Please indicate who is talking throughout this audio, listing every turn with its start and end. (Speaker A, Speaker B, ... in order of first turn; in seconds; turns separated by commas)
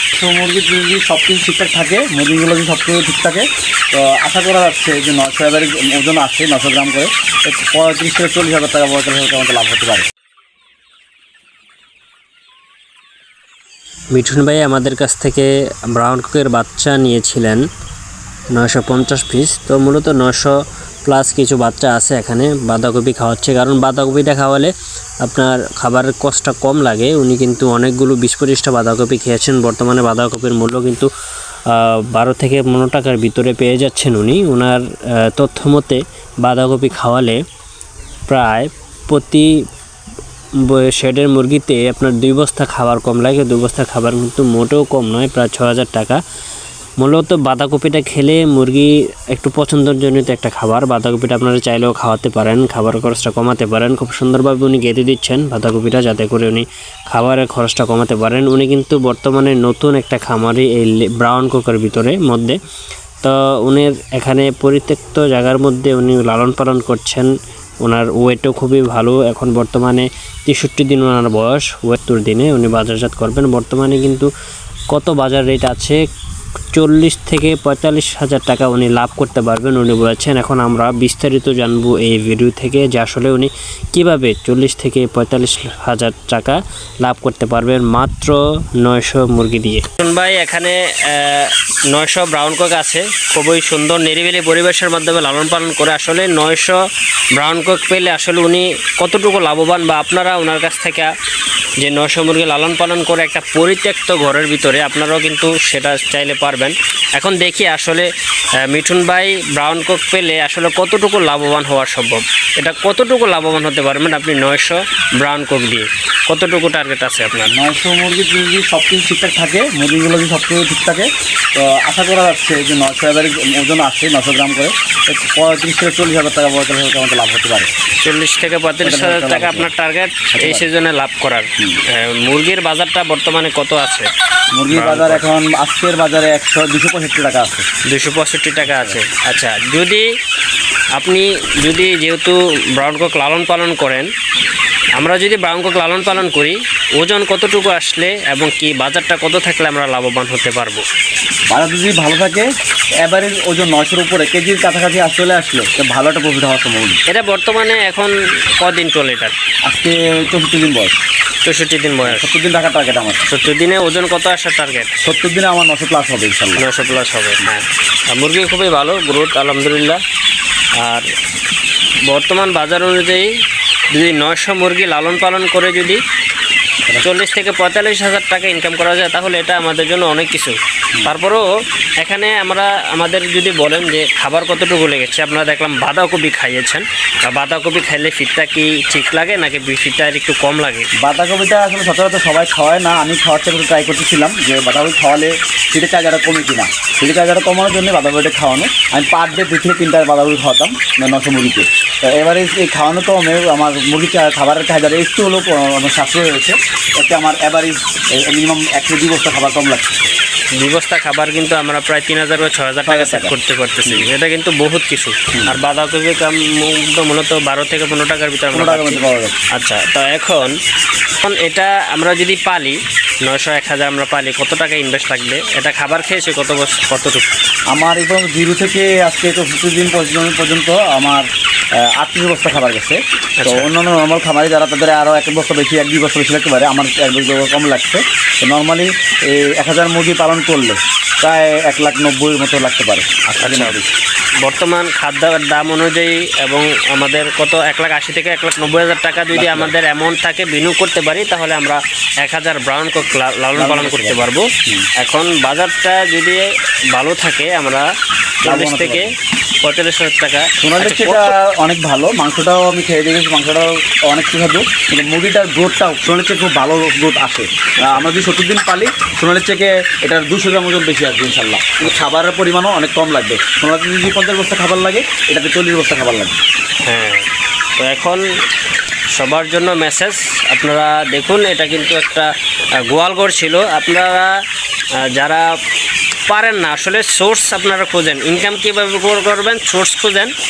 Speaker A: 0.1-10.1, Speaker B: 14.1-17.6, Speaker B: 18.5-20.5, Speaker B: 21.0-24.7, Speaker B: 25.2-31.1, Speaker B: 31.7-37.4, Speaker B: 38.3-39.5, Speaker B: 40.6-46.2, Speaker B: 47.0-62.6, Speaker B: 63.2-67.3, Speaker B: 67.8-74.3, Speaker B: 74.9-76.0, Speaker B: 76.7-96.8, Speaker B: 97.3-101.1, Speaker B: 101.8-108.1, Speaker B: 108.6-117.5, Speaker A: 117.5-127.7, Speaker B: 128.0-134.1, Speaker A: 128.8-129.7, Speaker A: 130.3-130.7, Speaker A: 134.6-137.7, Speaker B: 134.7-135.2, Speaker B: 137.9-140.1, Speaker A: 138.6-139.0, Speaker B: 141.0-144.1, Speaker B: 144.9-150.8, Speaker A: 151.5-152.5, Speaker A: 153.0-157.0, Speaker B: 157.1-159.3, Speaker A: 159.7-161.0, Speaker B: 161.4-162.3, Speaker A: 162.0-163.2, Speaker B: 163.3-164.9, Speaker A: 165.0-166.7, Speaker B: 166.6-170.0, Speaker B: 170.8-171.1, Speaker B: 172.1-173.3, Speaker B: 173.9-176.0, Speaker B: 177.0-181.5, Speaker B: 182.0-190.9, Speaker A: 191.0-210.0, Speaker B: 210.5-219.0, Speaker A: 212.8-213.3, Speaker A: 215.3-215.6, Speaker A: 218.5-219.5, Speaker B: 219.5-220.6, Speaker B: 221.2-227.2, Speaker A: 227.7-231.2, Speaker A: 231.8-243.9, Speaker B: 233.4-233.7, Speaker B: 243.4-243.8, Speaker B: 244.4-257.9, Speaker A: 249.3-249.7, Speaker A: 253.5-254.9, Speaker B: 258.4-259.1, Speaker A: 258.4-259.1, Speaker B: 259.6-261.3, Speaker A: 260.6-276.4, Speaker B: 276.8-277.2, Speaker B: 277.8-278.2, Speaker B: 279.1-284.3, Speaker B: 285.0-285.4, Speaker B: 286.3-290.3